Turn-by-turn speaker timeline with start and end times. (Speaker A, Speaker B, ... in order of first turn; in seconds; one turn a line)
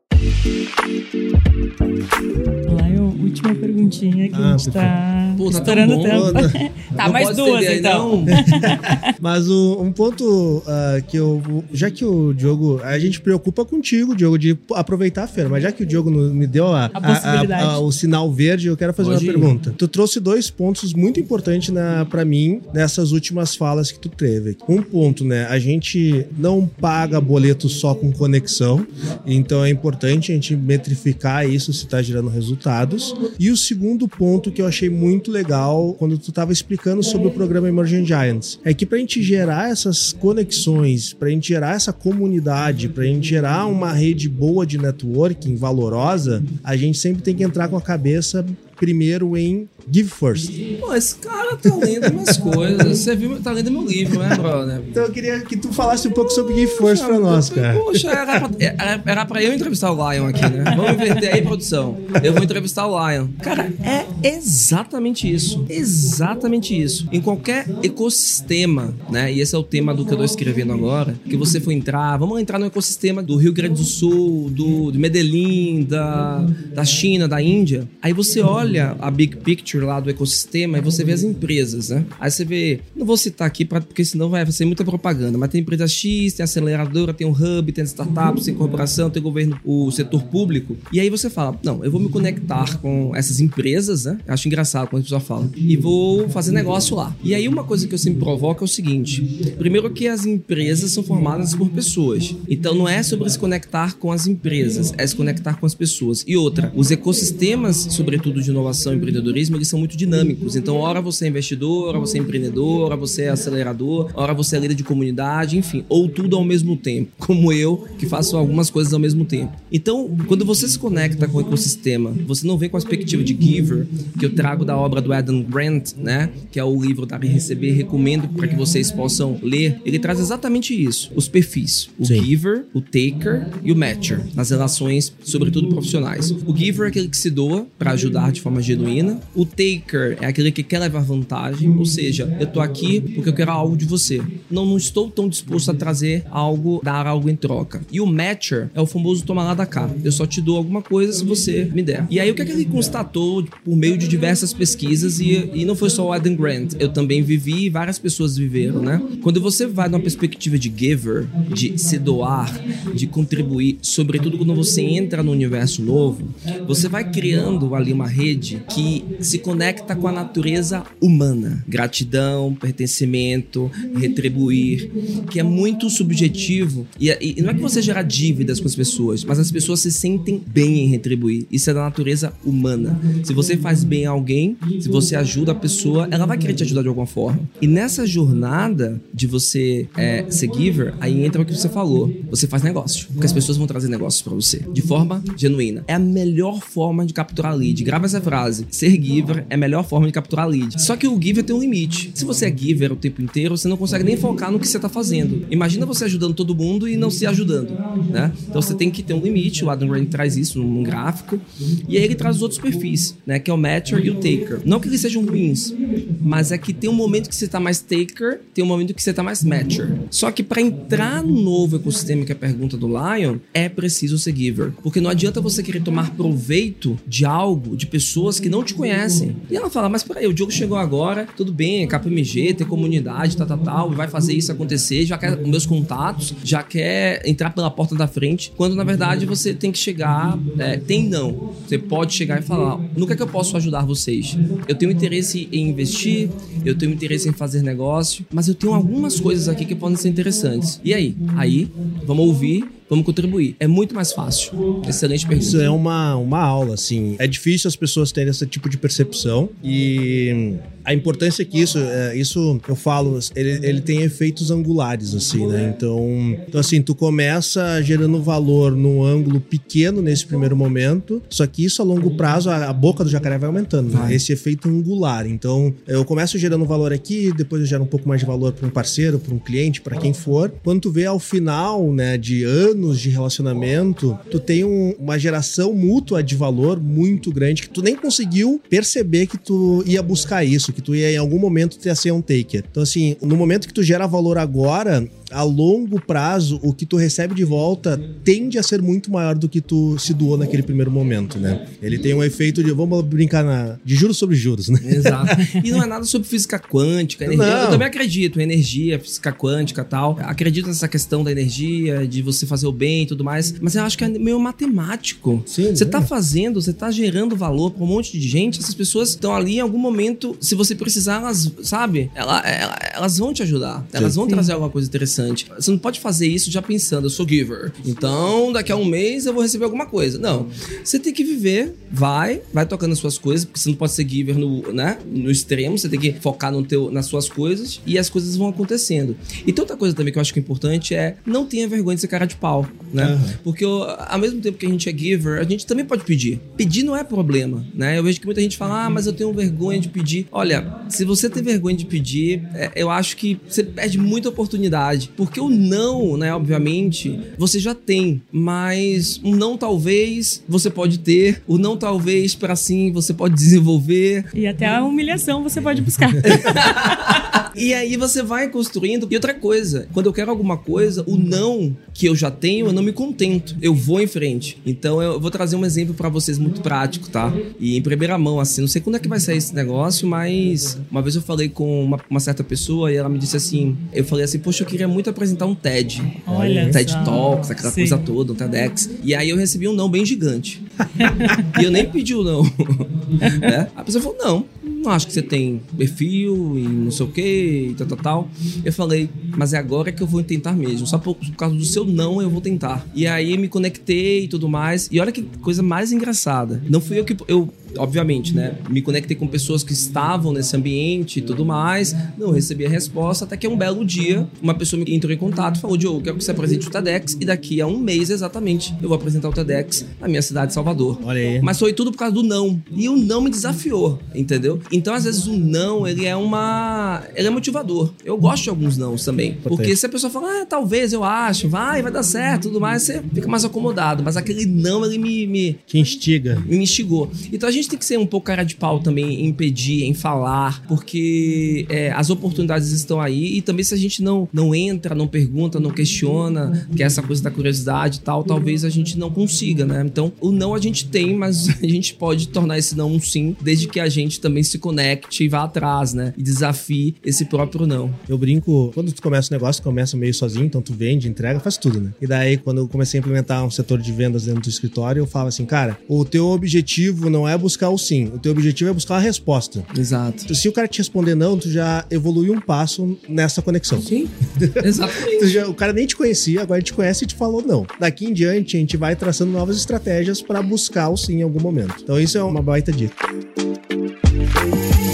Speaker A: 2.7-9.1
Speaker B: 4.3-4.9
Speaker C: 5.4-6.3
Speaker B: 6.0-6.5
Speaker C: 6.9-8.5
Speaker B: 8.4-50.6
Speaker A: 17.0-17.8
Speaker C: 19.0-19.5
Speaker C: 50.7-54.9
Speaker B: 51.6-52.3
Speaker B: 54.9-58.4
Speaker C: 56.2-255.7
Speaker B: 255.4-305.6
Speaker C: 273.9-274.2
Speaker C: 304.8-364.3
Speaker B: 307.2-307.9
Speaker B: 315.5-316.1
Speaker B: 323.9-324.3
Speaker B: 343.0-343.4
Speaker A: 364.3-367.3
Speaker B: 365.6-366.2
Speaker C: 366.2-386.2
Speaker A: 386.2-388.0
Speaker B: 386.3-386.8
Speaker C: 386.7-435.7
Speaker B: 421.0-421.5
Speaker B: 429.4-429.8
Speaker B: 435.7-436.5
Speaker C: 436.4-458.0
Speaker B: 458.1-469.7
Speaker C: 469.7-470.3
Speaker B: 470.3-483.0
Speaker C: 473.8-475.4